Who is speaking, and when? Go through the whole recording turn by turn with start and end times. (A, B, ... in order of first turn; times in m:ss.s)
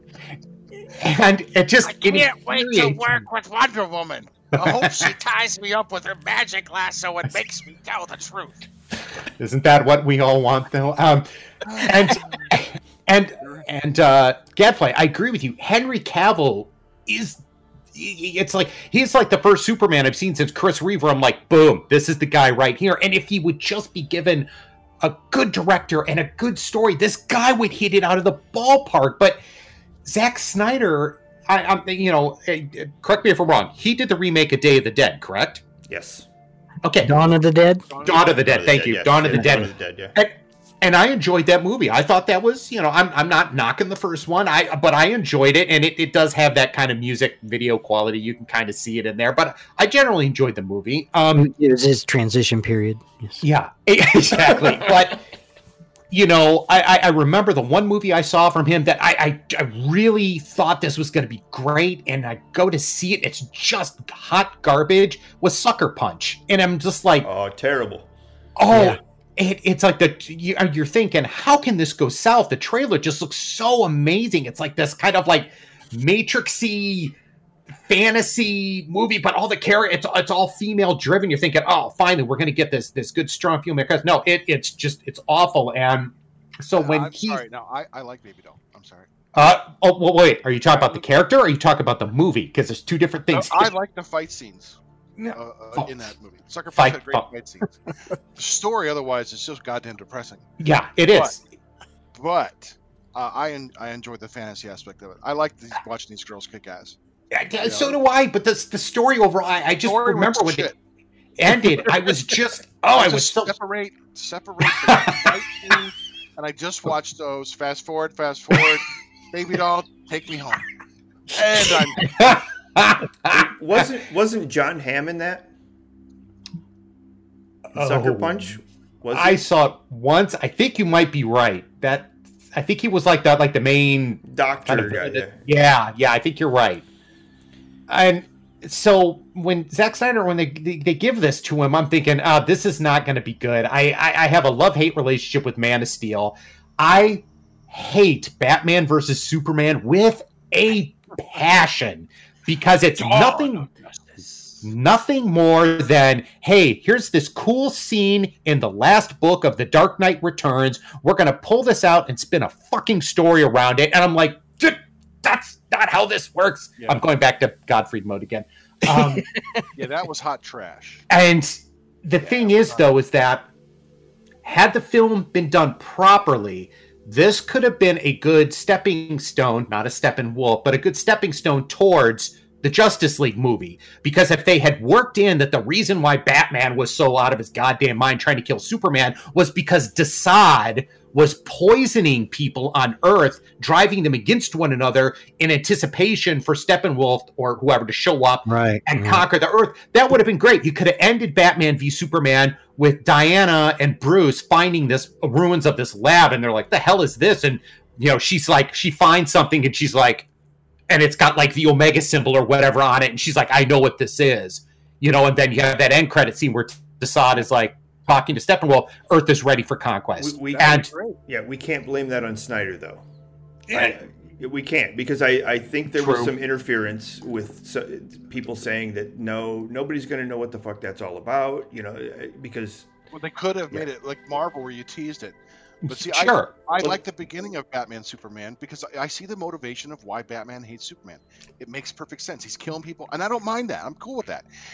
0:00.9-0:03.2 A
0:01.8-0:08.6 B
0:04.6-0:05.0 A
0:09.4-0:17.4 A
0:11.7-0:12.2 C
0:17.9-0:24.5 A
0:25.0-0:29.4 A
0:30.0-0:35.6 A
0:35.9-0:36.3 D
0:36.8-0:37.1 A
0:37.0-0:37.9 E
0:37.9-0:38.4 C
0:38.0-0:51.5 A
0:38.5-0:40.2 D
0:39.3-0:39.6 E
0:51.3-0:53.4 E
0:53.4-0:55.2 A
0:56.1-1:07.3 A
1:07.2-1:08.1 D
1:08.6-1:17.1 A
1:08.7-1:09.0 E
1:17.9-1:27.4 A
1:26.8-1:29.1 C
1:29.3-1:33.7 A
1:33.3-1:34.8 C
1:35.2-1:36.0 A
1:35.3-1:37.8 C
1:36.8-1:37.2 A
1:38.4-1:40.5 C
1:40.6-1:41.4 A
1:42.2-1:47.0 C
1:47.3-1:50.7 A
1:47.6-1:48.0 C
1:49.8-1:50.8 C
1:51.4-1:53.6 A
1:51.8-1:52.3 C
1:52.9-2:00.6 C
1:54.8-1:55.2 A
2:01.3-2:02.4 C
2:02.0-2:03.5 A
2:03.3-2:05.5 D
2:07.7-2:08.6 A
2:07.8-2:09.4 D
2:09.1-2:16.9 A
2:14.2-2:15.4 D
2:17.9-2:33.7 A
2:33.0-2:34.2 C
2:34.6-2:49.3 A
2:49.8-2:51.1 C
2:51.1-2:53.5 A
2:52.2-2:52.8 C
2:54.4-3:30.3 A
3:18.5-3:19.2 E
3:30.9-3:40.9 A
3:40.2-3:43.0 D
3:40.5-3:41.2 C
3:43.7-3:44.0 A
3:43.7-3:52.9 D
3:45.9-3:46.3 A
3:53.1-4:04.5 C
3:55.8-3:57.0 A